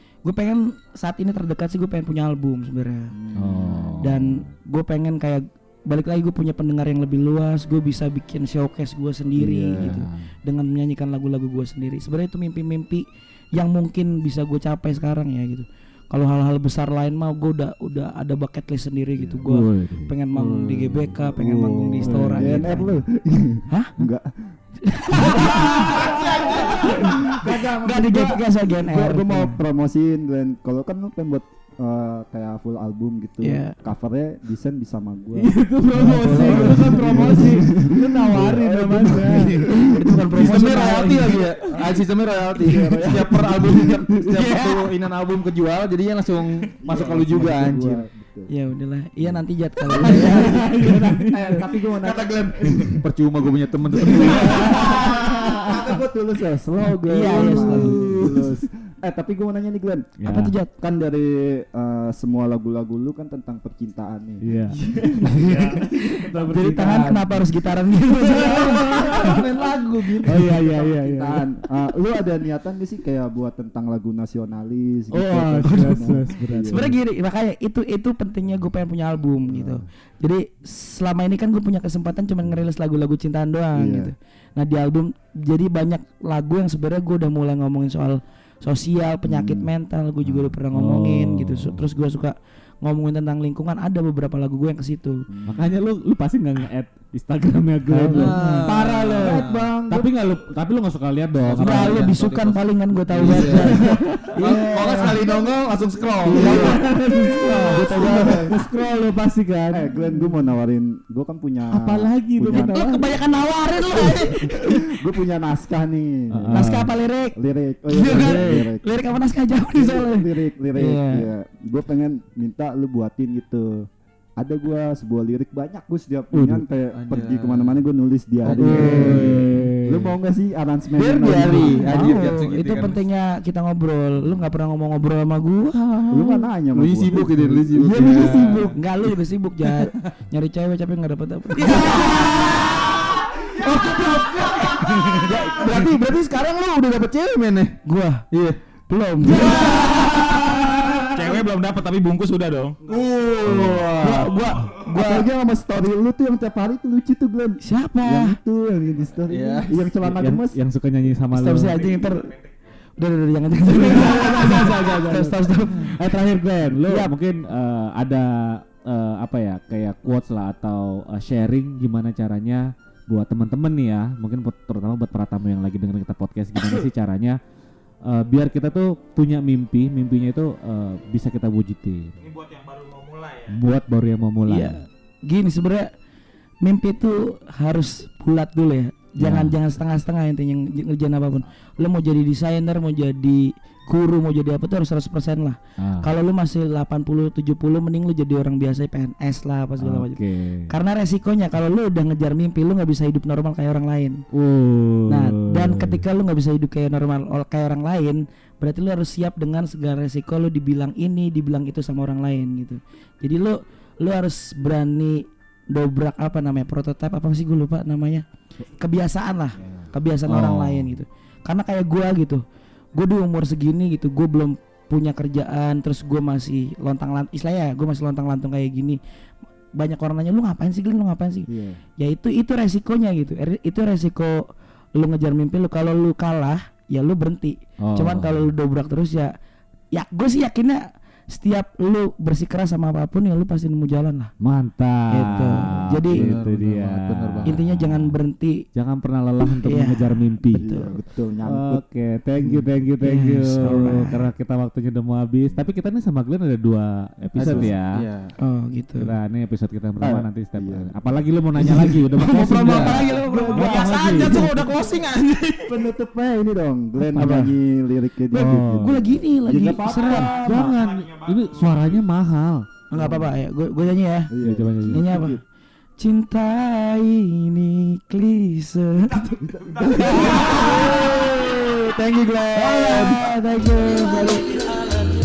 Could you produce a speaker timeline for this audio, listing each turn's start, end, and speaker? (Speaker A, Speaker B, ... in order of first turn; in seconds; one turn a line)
Speaker A: 0.2-3.1
Speaker B: 3.1-4.1
Speaker C: 3.4-4.4
Speaker A: 4.0-23.0
Speaker B: 9.3-10.1
Speaker C: 9.8-10.3
Speaker B: 19.1-19.4
Speaker C: 19.5-22.9
Speaker B: 21.4-24.6
Speaker A: 23.7-23.9
Speaker A: 24.8-29.6
Speaker B: 25.1-39.9
Speaker A: 33.4-33.8
Speaker C: 35.3-39.7
Speaker A: 35.9-37.5
Speaker A: 39.7-41.5
Speaker D: 40.3-48.0
Speaker B: 41.6-44.5
Speaker A: 44.3-44.7
Speaker B: 46.8-48.5
Speaker A: 48.5-50.7
Speaker B: 49.9-53.0
Speaker C: 50.0-51.6
Speaker D: 52.0-55.8
Speaker B: 54.1-60.2
Speaker C: 54.5-55.6
Speaker A: 57.1-58.0
Speaker C: 57.3-58.5
Speaker C: 60.2-60.5
Speaker A: 60.2-60.7
Speaker B: 60.7-66.3
Speaker C: 64.4-64.8
Speaker A: 64.8-69.4
Speaker C: 65.3-67.6
Speaker C: 68.1-69.5
Speaker B: 68.3-76.9
Speaker C: 70.2-71.6
Speaker C: 75.1-77.0
Speaker A: 75.6-76.1
Speaker A: 76.7-95.2
Speaker B: 79.5-79.8
Speaker B: 83.7-84.1
Speaker B: 89.2-89.7
Speaker C: 90.3-91.9
Speaker B: 95.3-95.8
Speaker C: 95.5-102.1
Speaker D: 98.0-99.7
Speaker A: 98.3-98.6
Speaker B: 99.1-100.1
Speaker D: 101.4-106.8
Speaker A: 101.5-105.2
Speaker C: 103.1-104.6
Speaker B: 106.3-106.9
Speaker C: 106.3-110.1
Speaker A: 107.4-108.3
Speaker B: 107.5-108.7
Speaker B: 109.7-112.8
Speaker C: 111.7-113.3
Speaker A: 112.6-114.8
Speaker B: 114.0-116.7
Speaker C: 116.3-116.9
Speaker A: 116.5-117.3
Speaker B: 117.3-118.8
Speaker A: 117.9-121.3
Speaker C: 118.1-118.7
Speaker B: 119.7-132.2
Speaker C: 126.3-126.6
Speaker D: 126.9-127.8
Speaker C: 128.4-130.1
Speaker D: 128.5-129.4
Speaker D: 130.9-133.0
Speaker A: 131.3-136.4
Speaker B: 136.1-138.8
Speaker D: 136.7-138.7
Speaker A: 138.3-142.7
Speaker D: 141.6-147.8
Speaker A: 143.4-145.8
Speaker A: 147.8-148.2
Speaker D: 148.3-148.6
Speaker A: 148.9-150.5
Speaker C: 149.5-151.1
Speaker E: 151.1-152.8
Speaker D: 152.9-154.4
Speaker C: 153.4-153.9
Speaker A: 154.0-155.3
Speaker B: 154.8-160.6
Speaker A: 157.6-158.4
Speaker D: 159.3-159.8
Speaker C: 160.0-161.8
Speaker A: 161.3-162.3
Speaker A: 163.0-166.2
Speaker C: 163.6-177.4
Speaker A: 166.8-167.1
Speaker C: 178.0-182.2
Speaker E: 182.2-183.5
Speaker C: 183.5-184.8
Speaker A: 184.5-185.9
Speaker A: 186.6-204.2
Speaker C: 189.2-189.6
Speaker C: 195.8-196.1
Speaker C: 199.8-200.7
Speaker C: 204.3-206.0
Speaker A: 205.1-218.2
Speaker A: 218.8-222.4
Speaker C: 219.6-221.0
Speaker A: 222.9-229.0
Speaker A: 229.7-234.4
Speaker B: 231.5-231.8
Speaker A: 234.9-239.3
Speaker C: 237.8-238.5
Speaker A: 239.9-244.3
Speaker C: 244.4-248.2
Speaker A: 245.1-246.3
Speaker D: 246.1-247.6
Speaker A: 247.4-248.6
Speaker C: 248.7-250.6
Speaker A: 249.4-250.9
Speaker B: 250.6-251.8
Speaker C: 251.4-258.0
Speaker B: 252.4-252.7
Speaker A: 253.0-254.2
Speaker D: 257.4-258.3
Speaker B: 257.4-257.7
Speaker A: 258.4-259.1
Speaker C: 259.0-264.6
Speaker B: 260.0-261.2
Speaker A: 261.6-264.6
Speaker D: 262.5-263.1
Speaker E: 263.4-265.8
Speaker B: 265.6-270.8
Speaker C: 267.1-267.6
Speaker C: 268.3-269.2
Speaker A: 268.3-270.7
Speaker C: 269.9-272.7
Speaker E: 270.6-271.3
Speaker A: 272.9-274.3
Speaker B: 272.9-273.3
Speaker B: 274.3-275.4
Speaker C: 274.4-275.1
Speaker A: 274.9-275.4
Speaker A: 276.0-281.2
Speaker B: 279.4-280.7
Speaker E: 279.9-280.5
Speaker D: 280.3-283.3
Speaker A: 282.5-284.9